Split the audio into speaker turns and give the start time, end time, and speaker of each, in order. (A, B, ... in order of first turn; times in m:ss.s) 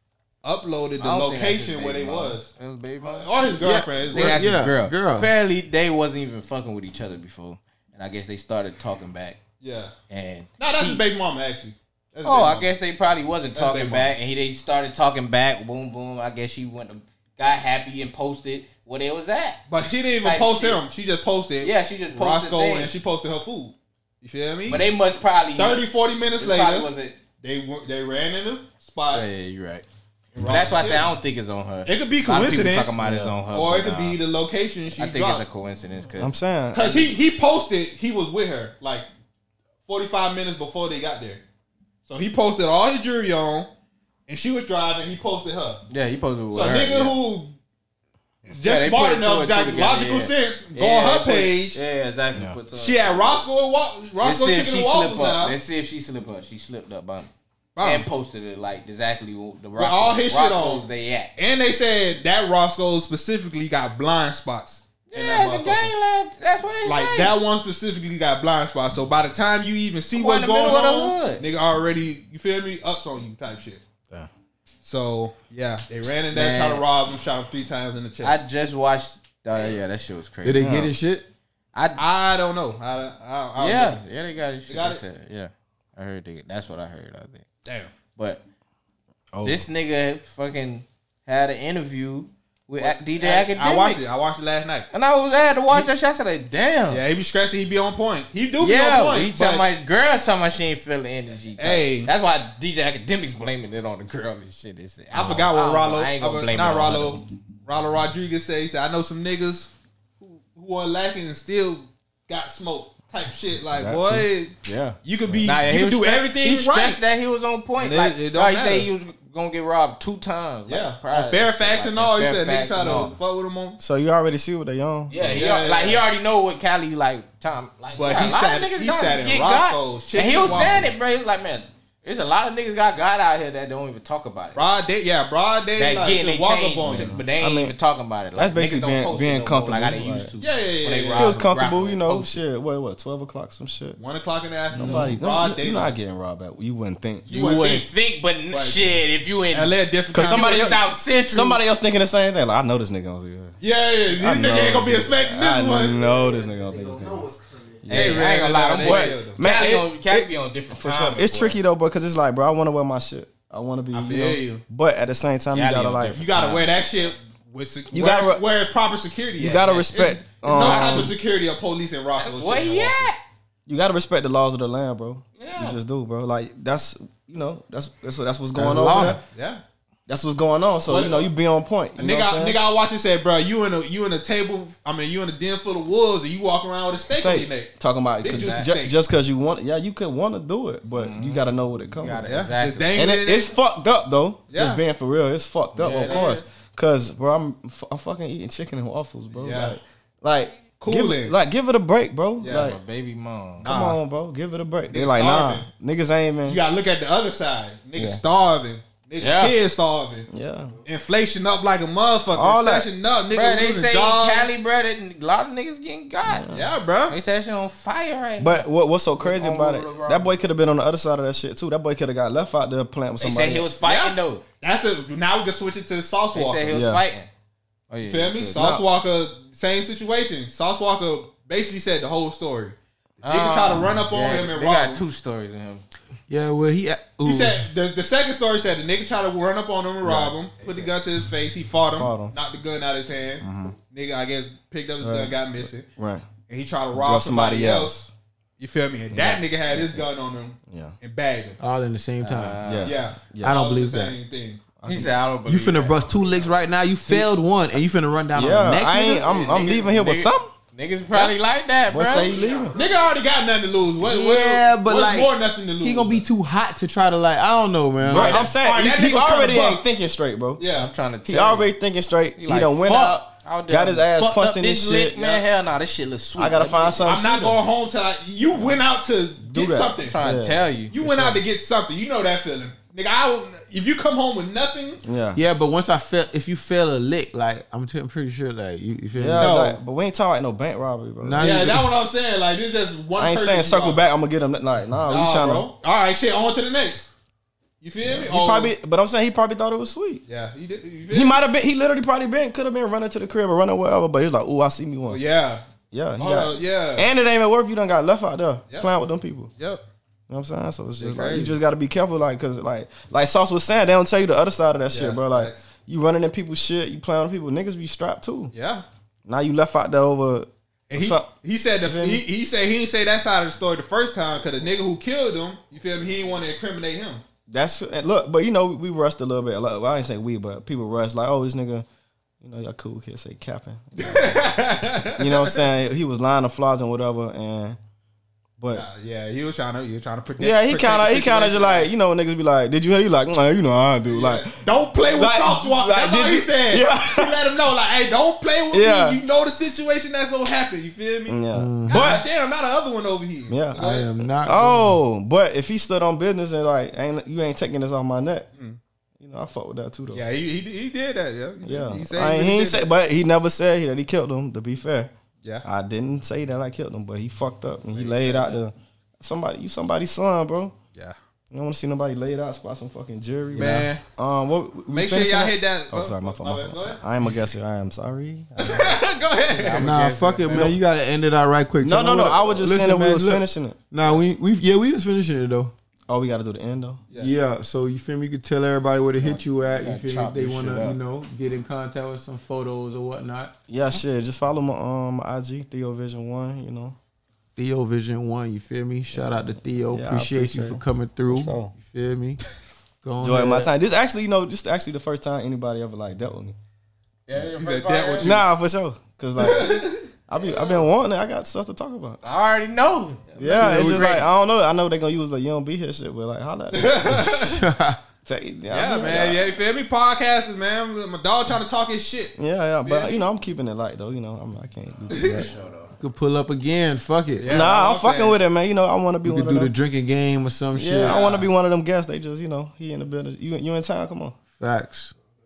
0:00.4-0:02.5 A
0:01.0-0:03.3 B
0:03.0-0:04.4 A
0:03.6-0:05.3 C
0:04.1-0:09.4 B
0:09.6-0:09.9 A
0:10.1-0:11.0 B
0:10.6-0:12.7 A
0:12.2-0:19.6 B
0:13.5-0:14.1 A
0:19.7-0:24.8 A
0:20.2-0:20.8 B
0:21.6-0:22.9 B
0:24.7-0:25.8 B
0:25.6-0:26.9 A
0:26.4-0:27.2 B
0:27.4-0:29.2 A
0:29.1-0:29.8 B
0:30.3-0:31.1 A
0:30.4-0:34.2 B
0:31.8-0:33.0 A
0:33.0-0:33.3 D
0:33.5-0:35.4 A
0:35.0-0:36.3 B
0:36.2-0:37.1 D
0:36.7-0:39.1 A
0:39.8-0:41.4 A
0:42.0-0:43.7 A
0:44.3-0:45.8 A
0:45.9-0:47.2 B
0:46.5-0:47.5 A
0:48.5-0:51.8 A
0:48.5-0:53.4 B
0:52.7-0:55.6 A
0:54.2-0:57.3 B
0:57.8-0:58.1 A
0:57.8-1:01.3 B
0:59.8-1:05.9 A
1:05.1-1:07.3 B
1:06.8-1:13.8 A
1:10.1-1:11.4 B
1:14.8-1:18.4 A
1:16.3-1:16.9 B
1:18.2-1:20.8 B
1:20.4-1:21.3 C
1:20.5-1:20.9 D
1:21.7-1:22.0 B
1:22.0-1:24.0 A
1:23.6-1:27.4 B
1:24.7-1:25.0 A
1:27.6-1:27.9 A
1:28.2-1:28.4 B
1:29.3-1:29.6 D
1:29.4-1:34.0 B
1:32.8-1:34.9 A
1:34.9-1:37.0 B
1:36.9-1:39.6 A
1:38.6-1:47.2 B
1:41.6-1:42.1 A
1:45.1-1:54.5 A
1:53.7-1:54.3 D
1:54.6-2:03.1 B
1:55.0-1:57.0 A
1:57.8-1:58.9 A
2:00.7-2:03.8 A
2:03.8-2:05.4 D
2:05.1-2:14.6 B
2:05.3-2:06.0 A
2:08.0-2:10.9 A
2:14.5-2:17.2 A
2:15.8-2:22.4 B
2:16.8-2:17.8 D
2:18.3-2:20.3 D
2:20.4-2:21.4 A
2:21.1-2:24.0 D
2:24.0-2:26.0 A
2:24.7-2:27.3 D
2:24.8-2:25.1 B
2:27.2-2:27.9 A
2:27.3-2:31.6 B
2:28.5-2:28.9 A
2:29.5-2:30.8 A
2:30.1-2:33.5 D
2:33.6-2:36.0 A
2:34.1-2:37.3 D
2:35.9-2:37.9 E
2:37.8-2:46.2 D
2:37.9-2:41.6 B
2:37.9-2:39.4 A
2:43.9-2:44.6 A
2:45.5-2:46.8 B
2:46.1-2:53.1 A
2:47.9-2:48.4 D
2:49.4-2:51.2 D
2:50.5-2:51.1 B
2:52.2-2:53.2 B
2:53.7-2:59.2 D
2:55.4-2:55.8 B
2:58.5-2:59.2 C
2:59.3-2:59.6 A
3:00.1-3:02.6 D
3:00.8-3:01.3 A
3:02.0-3:09.0 A
3:07.2-3:12.3 D
3:08.3-3:08.7 B
3:11.0-3:11.4 B
3:12.0-3:12.9 B
3:12.3-3:13.5 A
3:12.9-3:22.8 D
3:14.5-3:14.8 A
3:15.8-3:16.3 B
3:15.8-3:16.4 A
3:19.3-3:19.8 A
3:20.8-3:21.3 A
3:22.4-3:22.7 A
3:22.4-3:23.7 B
3:23.6-3:26.6 D
3:23.6-3:24.0 A
3:24.9-3:25.6 A
3:26.4-3:30.3 A
3:28.0-3:28.2 D
3:29.2-3:29.6 B
3:30.3-3:30.8 D
3:30.8-3:34.5 A
3:32.3-3:32.9 D
3:33.3-3:36.5 B
3:36.2-3:36.7 D
3:36.5-3:37.2 A
3:37.1-3:38.6 B
3:38.4-3:43.7 D
3:39.2-3:40.3 B
3:43.2-3:44.4 B
3:43.8-3:46.8 A
3:46.3-3:47.3 B
3:46.7-3:47.0 D
3:47.9-3:48.6 B
3:48.0-3:52.8 A
3:48.5-3:48.8 D
3:53.2-3:55.8 B
3:53.3-3:55.0 A
3:56.3-3:57.6 C
3:57.2-4:05.9 A
4:00.0-4:00.3 D
4:00.6-4:00.9 B
4:01.9-4:02.3 D
4:03.4-4:03.8 D
4:05.0-4:06.3 D
4:06.5-4:08.0 A
4:06.9-4:08.1 D
4:08.6-4:11.6 A
4:09.1-4:10.0 D
4:10.7-4:10.9 D
4:11.6-4:12.6 C
4:12.2-4:13.0 B
4:12.6-4:13.6 D
4:12.8-4:14.6 A
4:13.4-4:14.1 C
4:14.8-4:15.1 D
4:14.8-4:16.5 B
4:15.5-4:19.3 C
4:18.3-4:20.5 D
4:19.0-4:22.4 B
4:21.9-4:22.7 D
4:22.0-4:23.1 E
4:22.8-4:26.2 A
4:24.0-4:29.0 C
4:28.0-4:30.6 D
4:28.0-4:29.8 A
4:30.6-4:30.9 A
4:30.7-4:31.7 B
4:31.2-4:35.4 D
4:32.4-4:37.1 B
4:36.4-4:37.6 D
4:37.0-4:40.1 A
4:39.4-4:41.4 D
4:40.0-4:40.9 B
4:40.9-4:45.0 A
4:45.0-4:45.4 D
4:45.3-4:49.6 C
4:49.1-4:51.7 D
4:49.4-4:49.8 A
4:51.2-4:51.9 C
4:51.4-4:54.0 A
4:53.2-4:55.7 D
4:55.0-4:57.1 A
4:57.8-4:58.7 A
4:58.0-5:00.2 D
5:00.3-5:01.4 A
5:01.1-5:05.2 D
5:05.1-5:05.6 A
5:05.9-5:09.5 D
5:06.2-5:07.1 A
5:09.6-5:09.8 A
5:10.3-5:18.5 D
5:11.0-5:11.5 A
5:14.9-5:15.6 A
5:18.5-5:18.8 A
5:19.2-5:21.3 D
5:20.9-5:27.2 A
5:21.8-5:22.2 D
5:27.5-5:31.8 D
5:32.4-5:34.4 D
5:34.0-5:35.6 A
5:35.0-5:37.8 D
5:38.6-5:38.8 D
5:38.7-5:41.9 A
5:40.4-5:47.5 D
5:44.0-5:54.1 A
5:48.7-5:49.2 D
5:51.3-5:52.2 D
5:51.5-5:52.0 C
5:53.5-5:58.5 D
5:53.7-5:55.0 C
5:59.2-6:00.2 D
6:00.1-6:02.9 A
6:01.6-6:05.1 D
6:05.6-6:10.7 D
6:08.0-6:08.6 B
6:08.0-6:08.3 A
6:11.5-6:19.0 D
6:13.5-6:14.0 A
6:14.9-6:17.3 A
6:18.6-6:20.0 A
6:19.4-6:20.7 B
6:19.8-6:25.7 C
6:20.5-6:20.8 D
6:21.8-6:23.8 D
6:26.1-6:27.0 D
6:27.2-6:33.5 C
6:29.2-6:31.0 B
6:33.7-6:37.0 D
6:37.6-6:42.4 C
6:39.9-6:41.7 D
6:43.0-6:43.7 C
6:43.2-6:46.6 D
6:47.3-6:48.4 B
6:47.6-6:48.4 A
6:48.2-6:52.2 D
6:49.4-6:50.1 A
6:50.4-6:50.8 B
6:52.2-6:54.3 B
6:53.4-6:57.4 D
6:56.7-6:57.6 A
6:57.1-6:58.0 C
6:58.2-6:59.5 D
6:58.7-7:03.2 A
7:02.4-7:05.5 D
7:05.1-7:05.5 A
7:06.0-7:07.5 C
7:07.4-7:07.7 B
7:07.4-7:08.4 A
7:07.4-7:09.7 D
7:09.2-7:11.2 C
7:10.7-7:14.3 D
7:11.0-7:11.5 A
7:14.6-7:15.1 C